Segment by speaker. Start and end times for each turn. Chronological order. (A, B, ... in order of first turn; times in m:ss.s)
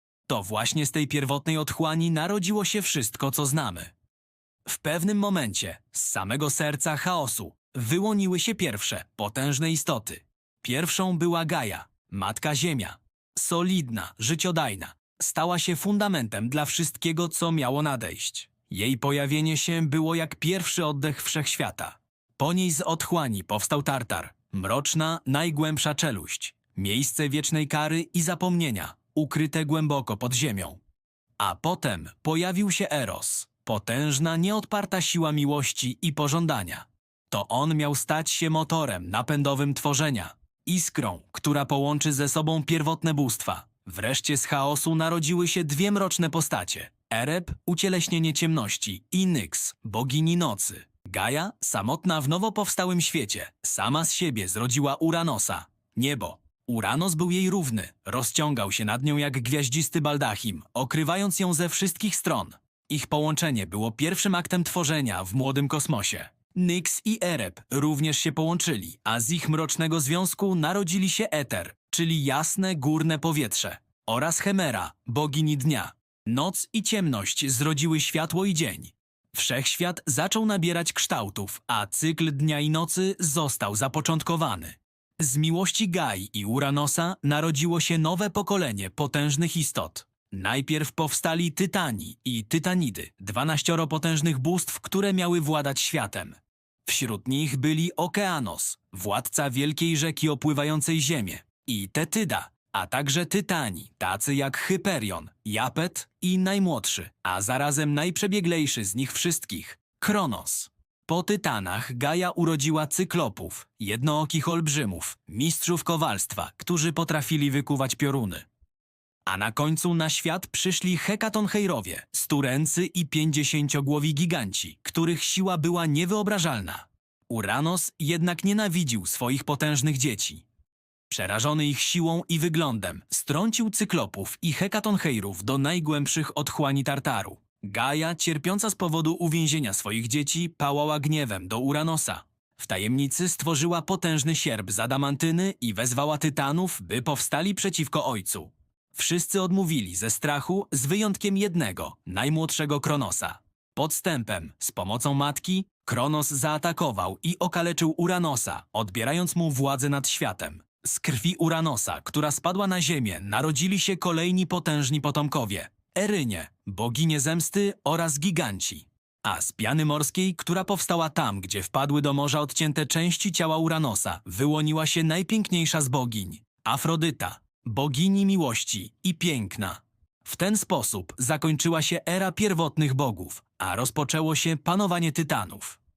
0:00.3-0:03.9 A
0:04.6-0:30.8 A
0:31.4-1:58.4 A
1:59.2-2:10.4 A
2:11.1-3:05.8 A